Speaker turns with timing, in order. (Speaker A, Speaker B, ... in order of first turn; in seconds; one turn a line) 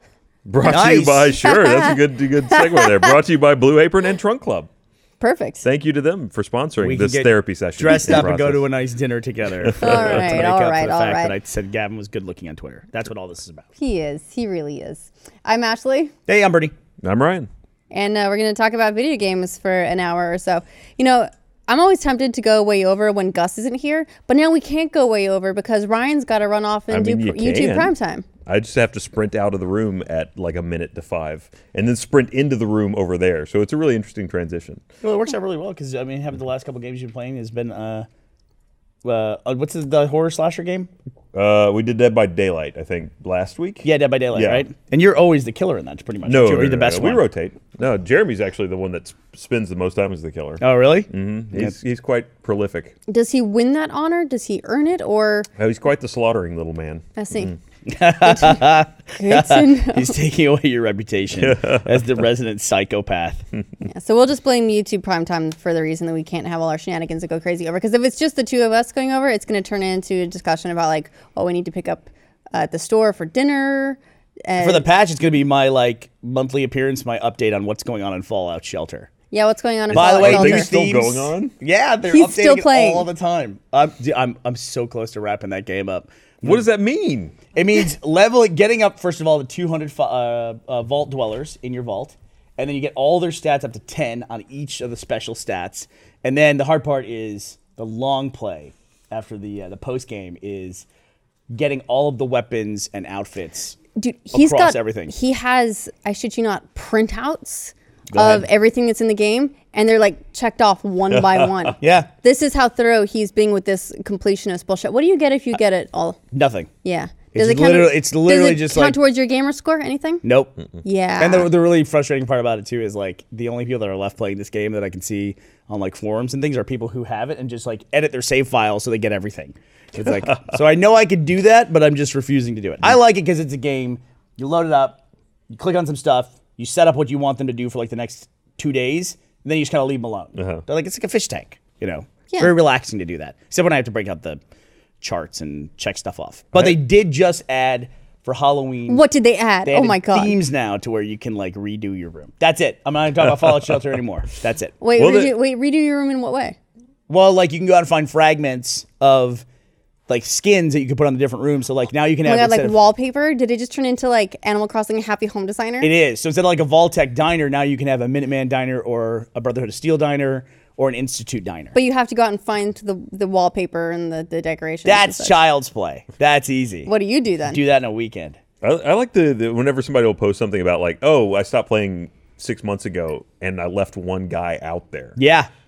Speaker A: 0.5-4.7
Speaker B: 0.6-1.3
Speaker C: 1.4-3.1
Speaker C: 5.2-5.7
Speaker A: 5.6-8.7
Speaker B: 6.8-13.7
Speaker A: 9.6-10.2
Speaker C: 9.8-11.3
Speaker C: 13.8-16.1
Speaker B: 16.3-16.7
Speaker A: 17.0-17.5
Speaker C: 17.9-28.2
Speaker A: 26.9-27.9
Speaker A: 28.5-34.9
Speaker B: 35.0-38.1
Speaker B: 39.0-40.9
Speaker A: 41.3-44.6
Speaker B: 43.8-47.2
Speaker A: 46.2-53.0
Speaker B: 50.6-51.8
Speaker C: 53.1-55.5
Speaker A: 55.6-57.5
Speaker C: 57.2-57.5
Speaker B: 57.9-63.5
Speaker C: 58.2-60.1
Speaker A: 61.4-62.0
Speaker C: 63.8-74.9
Speaker B: 74.6-79.1
Speaker C: 79.3-80.7
Speaker A: 79.9-81.5
Speaker B: 79.9-86.6
Speaker C: 82.1-83.1
Speaker A: 86.4-87.4
Speaker B: 87.5-100.9
Speaker B: 101.5-103.8
Speaker C: 104.0-116.2
Speaker B: 104.3-105.1
Speaker B: 108.1-108.5
Speaker A: 111.1-111.8
Speaker B: 111.8-112.1
Speaker B: 116.3-116.7
Speaker C: 116.8-120.2
Speaker B: 117.3-119.0
Speaker B: 120.2-120.5
Speaker C: 120.8-121.5
Speaker B: 121.2-135.0
Speaker B: 135.5-144.4
Speaker A: 140.4-140.6
Speaker B: 145.0-149.0
Speaker C: 148.9-150.4
Speaker B: 149.7-155.2
Speaker C: 154.8-156.6
Speaker A: 155.0-155.3
Speaker B: 157.1-159.4
Speaker B: 160.1-162.8
Speaker C: 162.2-165.9
Speaker B: 165.8-171.8
Speaker C: 171.7-175.4
Speaker B: 174.8-176.9
Speaker C: 176.9-177.6
Speaker B: 177.5-178.4
Speaker A: 178.6-185.2
Speaker B: 185.2-185.5